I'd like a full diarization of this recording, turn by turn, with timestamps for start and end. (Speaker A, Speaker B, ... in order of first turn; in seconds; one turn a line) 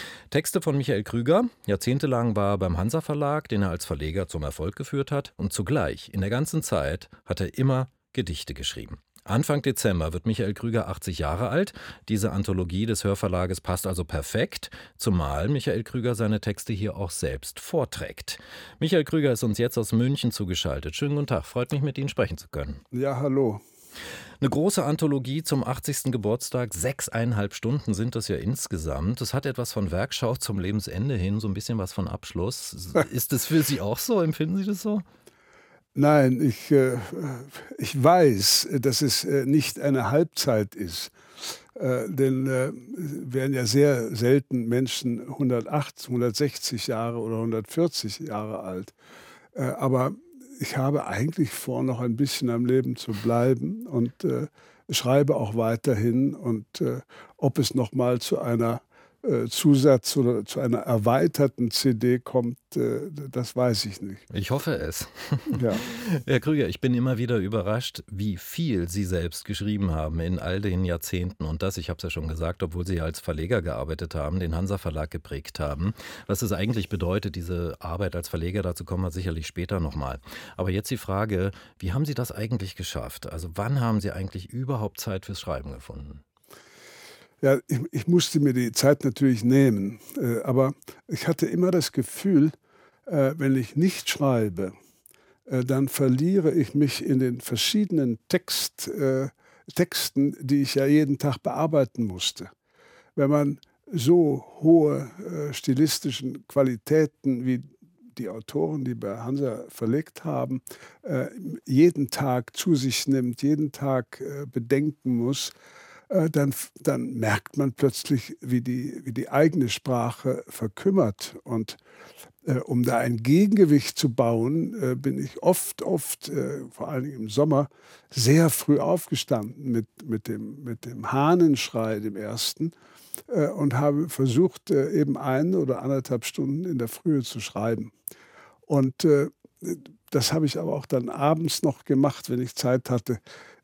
Speaker A: 0.3-22.8
Speaker B: 22.9-23.6
Speaker A: 24.4-35.0
Speaker B: 35.9-48.9
Speaker B: 49.5-64.2
Speaker A: 64.3-86.2
Speaker B: 65.5-65.8
Speaker B: 87.4-92.5
Speaker B: 93.0-94.7
Speaker B: 95.5-102.5
Speaker B: 103.2-115.5
Speaker B: 116.1-121.8
Speaker B: 122.4-132.7
Speaker B: 133.3-137.9
Speaker B: 138.7-143.2